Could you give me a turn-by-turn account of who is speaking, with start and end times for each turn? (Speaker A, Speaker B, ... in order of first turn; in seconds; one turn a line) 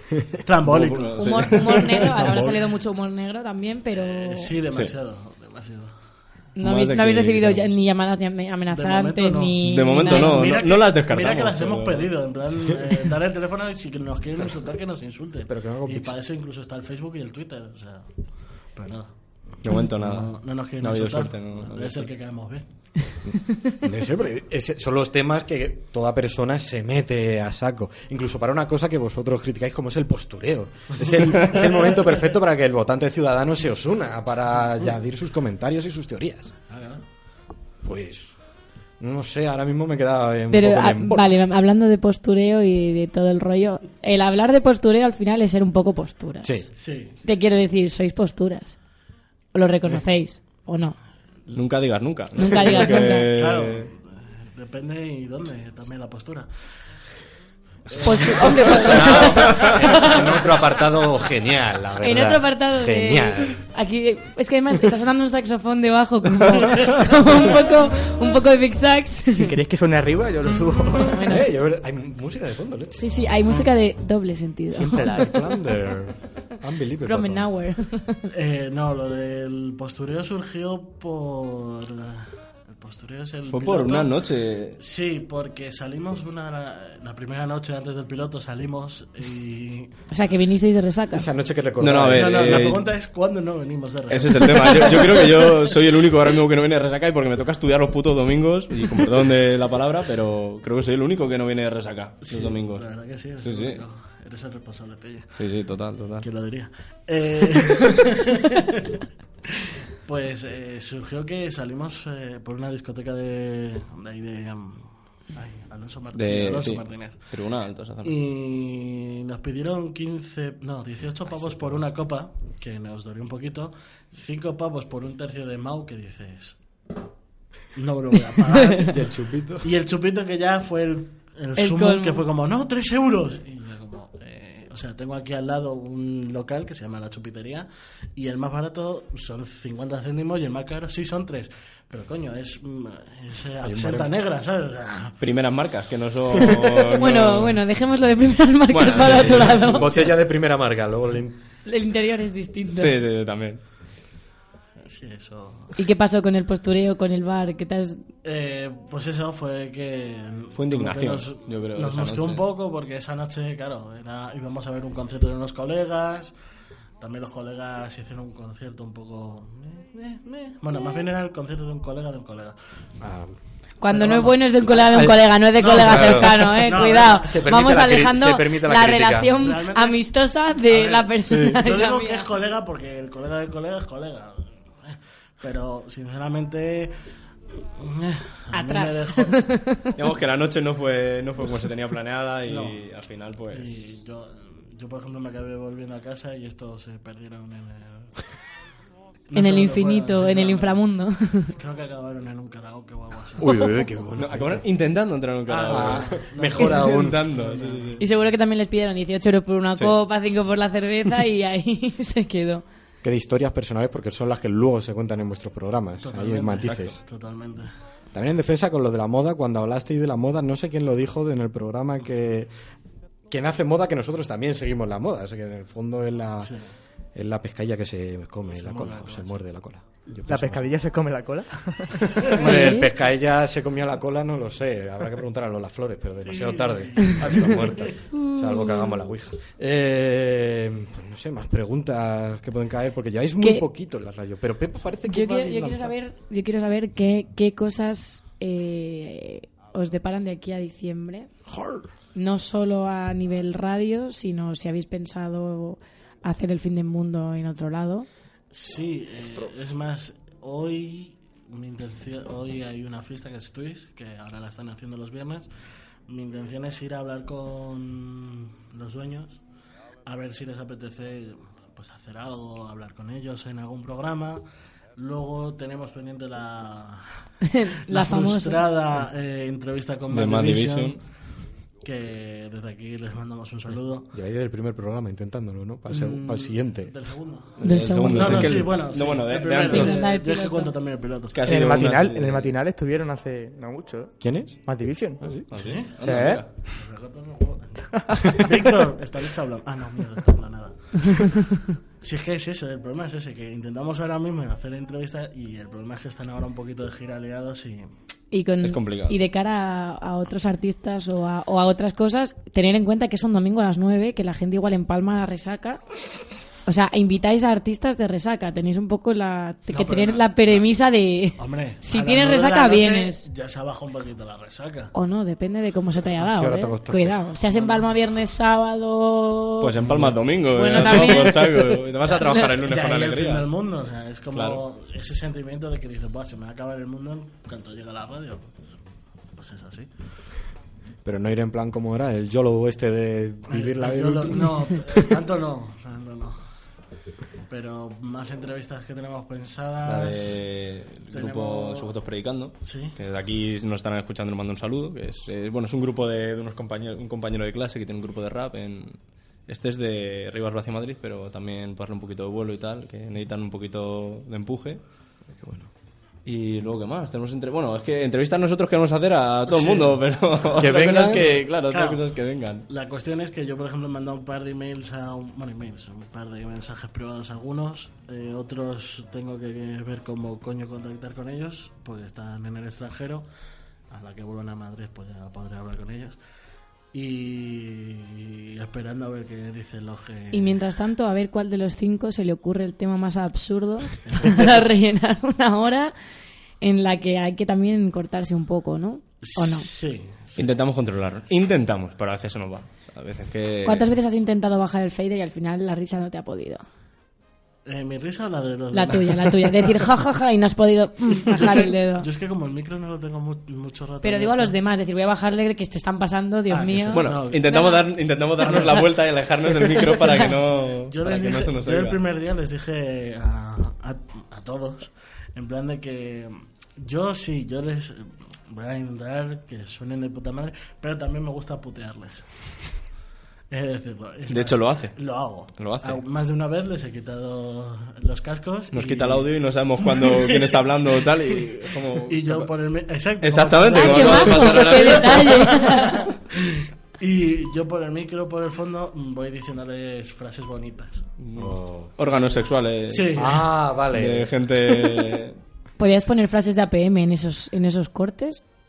Speaker A: 0.4-1.5
Speaker B: 0.6-2.5
Speaker C: 1.2-4.5
Speaker A: 3.9-5.9
Speaker C: 6.6-10.5
Speaker B: 6.6-7.7
Speaker A: 8.7-18.1
Speaker B: 9.6-12.1
Speaker D: 15.5-16.1
Speaker A: 18.7-19.1
Speaker B: 19.6-22.1
Speaker A: 19.9-22.6
Speaker D: 23.8-36.5
Speaker A: 36.7-37.0
Speaker D: 37.8-38.3
Speaker D: 39.0-41.2
Speaker C: 40.5-46.7
Speaker D: 46.4-46.7
Speaker A: 46.7-47.2
Speaker C: 47.2-48.8
Speaker C: 49.5-51.0
Speaker B: 51.5-53.9
Speaker C: 52.4-53.3
Speaker A: 52.7-56.5
Speaker A: 57.9-60.2
Speaker C: 58.0-60.2
Speaker D: 58.2-63.6
Speaker C: 62.0-69.5
Speaker E: 69.3-71.2
Speaker C: 71.1-71.5
Speaker D: 71.3-73.0
Speaker C: 72.9-75.1
Speaker E: 74.8-75.4
Speaker D: 75.0-77.5
Speaker C: 77.0-78.2
Speaker A: 78.3-84.1
Speaker B: 83.5-84.8
Speaker A: 84.8-89.9
Speaker C: 90.1-91.2
Speaker D: 91.1-92.7
Speaker B: 91.8-92.8
Speaker A: 92.0-95.3
Speaker B: 94.1-102.9
Speaker A: 102.2-105.4
Speaker B: 103.4-103.8
Speaker B: 105.4-106.2
Speaker A: 106.2-109.0
Speaker A: 110.0-117.3
Speaker B: 116.1-118.2
Speaker A: 118.0-126.6
Speaker A: 127.7-129.1
Speaker D: 128.9-129.7
Speaker A: 129.6-145.2
Speaker C: 131.6-132.2
Speaker D: 143.6-144.1
Speaker B: 145.2-147.6
Speaker C: 147.0-149.9
Speaker B: 148.7-150.1
Speaker D: 149.0-151.4
Speaker C: 151.7-153.0
Speaker B: 152.8-153.6
Speaker A: 154.8-155.8
Speaker C: 155.8-158.0
Speaker A: 158.2-166.3
Speaker B: 160.5-162.4
Speaker A: 167.0-172.6
Speaker D: 173.0-173.3
Speaker C: 173.8-182.3
Speaker A: 173.9-174.4
Speaker D: 174.6-179.4
Speaker A: 175.6-177.4
Speaker A: 179.3-180.0
Speaker A: 180.6-186.9
Speaker A: 187.8-189.5
Speaker C: 188.5-189.9
Speaker B: 189.9-193.9
Speaker A: 192.5-192.8
Speaker A: 193.5-198.1
Speaker A: 199.3-200.8
Speaker C: 199.3-201.5
Speaker A: 201.5-203.8
Speaker D: 203.4-204.6
Speaker B: 204.2-208.0
Speaker A: 205.5-208.0
Speaker D: 205.7-207.2
Speaker C: 208.0-212.6
Speaker D: 213.0-217.0
Speaker A: 216.0-217.7
Speaker D: 218.1-222.5
Speaker D: 223.3-226.5
Speaker A: 226.4-226.7
Speaker D: 227.1-230.6
Speaker A: 228.5-229.4
Speaker E: 230.2-232.0
Speaker D: 232.2-245.9
Speaker C: 232.3-232.9
Speaker A: 236.2-237.9
Speaker C: 238.1-239.0
Speaker C: 245.1-251.3
Speaker D: 251.5-251.9
Speaker C: 252.1-258.1
Speaker A: 258.5-265.5
Speaker A: 266.1-269.4
Speaker A: 270.0-274.4
Speaker A: 274.9-277.1
Speaker C: 277.4-278.6
Speaker A: 277.9-281.0
Speaker B: 280.1-281.0
Speaker A: 281.8-284.1
Speaker D: 284.1-286.9
Speaker A: 285.9-291.4
Speaker B: 287.6-290.0
Speaker C: 287.6-288.5
Speaker C: 289.6-290.7
Speaker B: 291.3-292.6
Speaker E: 291.4-295.2
Speaker D: 294.2-294.6
Speaker B: 295.2-296.5
Speaker A: 295.5-296.0
Speaker E: 296.0-296.4
Speaker A: 296.6-307.9
Speaker C: 308.3-315.8
Speaker B: 308.6-309.2
Speaker C: 316.6-323.3
Speaker A: 319.7-320.6
Speaker A: 321.4-324.9
Speaker C: 324.9-329.7
Speaker D: 326.2-327.2
Speaker A: 327.5-327.9
Speaker B: 329.6-333.5
Speaker D: 329.8-330.2
Speaker C: 330.5-332.4
Speaker A: 332.1-338.5
Speaker B: 334.3-334.6
Speaker A: 339.4-339.9
Speaker D: 341.0-345.0
Speaker A: 343.5-346.4
Speaker A: 347.5-350.4
Speaker B: 349.9-364.8
Speaker A: 351.1-351.9
Speaker A: 352.6-352.9
Speaker D: 365.3-365.7
Speaker B: 366.2-372.6
Speaker A: 369.5-370.0
Speaker D: 370.6-371.4
Speaker A: 371.3-372.1
Speaker A: 372.7-383.3
Speaker A: 383.9-386.2
Speaker A: 386.9-390.6
Speaker C: 390.3-395.9
Speaker A: 394.0-394.6
Speaker C: 396.6-399.7
Speaker A: 399.2-400.6
Speaker B: 400.4-403.9
Speaker C: 403.6-406.6
Speaker A: 407.6-409.8
Speaker C: 408.7-412.1
Speaker A: 411.3-414.6
Speaker C: 414.0-417.9
Speaker A: 416.5-417.7
Speaker B: 416.9-422.0
Speaker A: 418.4-419.1
Speaker C: 418.4-418.7
Speaker A: 419.9-420.3
Speaker A: 420.9-432.4
Speaker A: 433.5-439.3
Speaker B: 434.3-435.0
Speaker B: 435.5-436.0
Speaker B: 438.7-442.5
Speaker A: 439.8-441.1
Speaker A: 442.1-451.0
Speaker B: 443.2-445.6
Speaker C: 443.7-446.1
Speaker B: 451.2-455.4
Speaker D: 451.4-451.9
Speaker A: 452.9-453.4
Speaker D: 453.2-454.3
Speaker C: 455.8-458.4